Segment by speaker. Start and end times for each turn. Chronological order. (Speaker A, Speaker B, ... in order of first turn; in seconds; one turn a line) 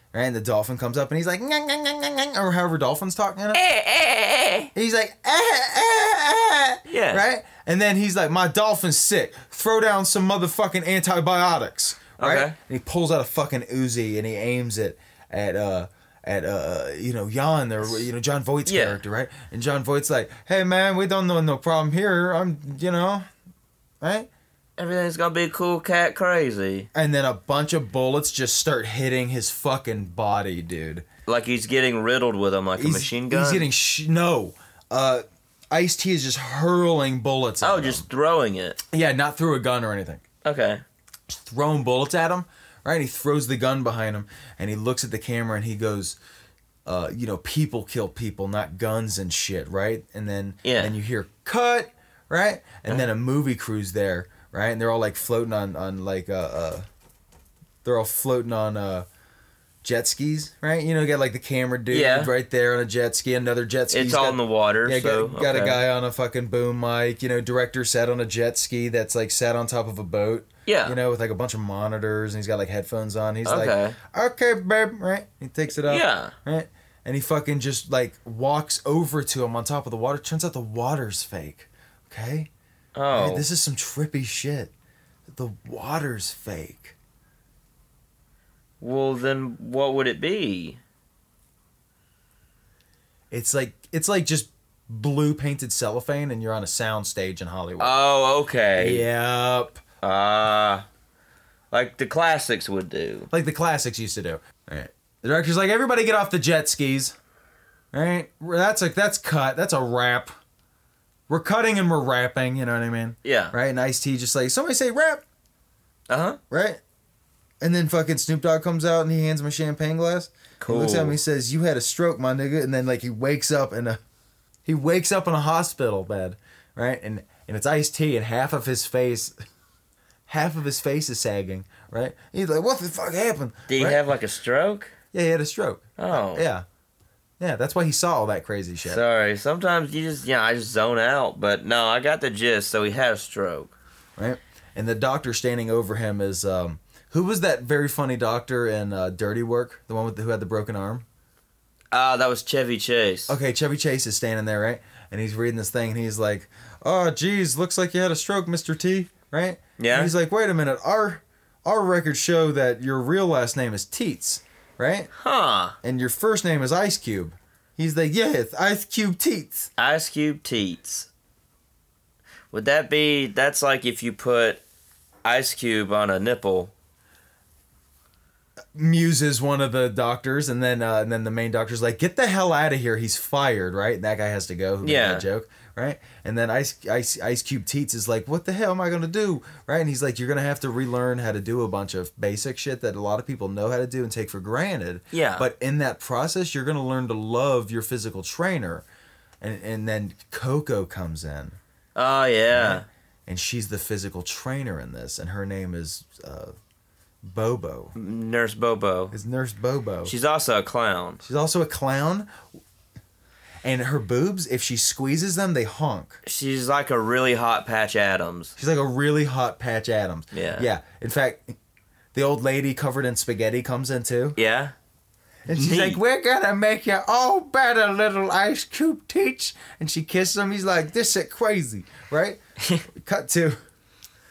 Speaker A: 0.1-3.6
Speaker B: 3.5-4.7
Speaker A: 4.8-23.3
Speaker B: 6.9-7.2
Speaker B: 12.2-12.6
Speaker B: 18.7-19.0
Speaker A: 24.0-24.3
Speaker B: 24.8-26.9
Speaker A: 26.9-31.1
Speaker B: 31.3-33.7
Speaker A: 32.8-38.1
Speaker B: 37.6-38.8
Speaker A: 38.9-40.2
Speaker B: 40.4-40.8
Speaker A: 41.3-46.2
Speaker A: 46.9-56.9
Speaker B: 50.6-51.0
Speaker A: 57.8-59.1
Speaker A: 59.8-82.5
Speaker B: 61.9-62.3
Speaker B: 63.9-65.8
Speaker B: 70.7-71.0
Speaker B: 73.5-74.0
Speaker B: 75.7-76.3
Speaker B: 83.0-83.5
Speaker A: 83.1-84.7
Speaker A: 85.3-87.0
Speaker B: 88.8-90.8
Speaker A: 93.3-98.0
Speaker B: 97.8-99.0
Speaker A: 98.8-99.8
Speaker B: 100.0-100.9
Speaker B: 101.7-103.3
Speaker A: 103.3-107.2
Speaker A: 107.9-110.3
Speaker A: 111.3-115.2
Speaker B: 113.2-113.5
Speaker B: 116.1-116.4
Speaker A: 116.5-116.8
Speaker A: 117.6-124.0
Speaker B: 120.6-121.2
Speaker A: 124.7-129.3
Speaker A: 130.3-134.0
Speaker B: 133.7-134.9
Speaker A: 135.1-136.7
Speaker B: 136.0-136.5
Speaker A: 137.4-139.0
Speaker B: 138.8-143.7
Speaker A: 144.2-151.1
Speaker B: 151.9-153.4
Speaker A: 153.3-165.1
Speaker B: 159.8-160.1
Speaker B: 165.2-165.8
Speaker A: 165.8-169.7
Speaker B: 169.8-171.1
Speaker B: 172.5-174.6
Speaker B: 175.2-176.7
Speaker A: 178.8-198.8
Speaker B: 184.8-185.2
Speaker B: 195.1-195.5
Speaker A: 199.4-201.6
Speaker B: 201.9-202.9
Speaker A: 202.5-206.6
Speaker A: 207.3-207.9
Speaker B: 207.9-209.2
Speaker A: 209.1-210.1
Speaker B: 210.1-211.2
Speaker A: 211.2-212.3
Speaker A: 213.6-216.2
Speaker B: 216.2-218.5
Speaker A: 218.6-221.6
Speaker B: 220.3-220.7
Speaker A: 222.1-224.4
Speaker B: 224.4-224.7
Speaker A: 225.4-233.6
Speaker B: 225.5-226.0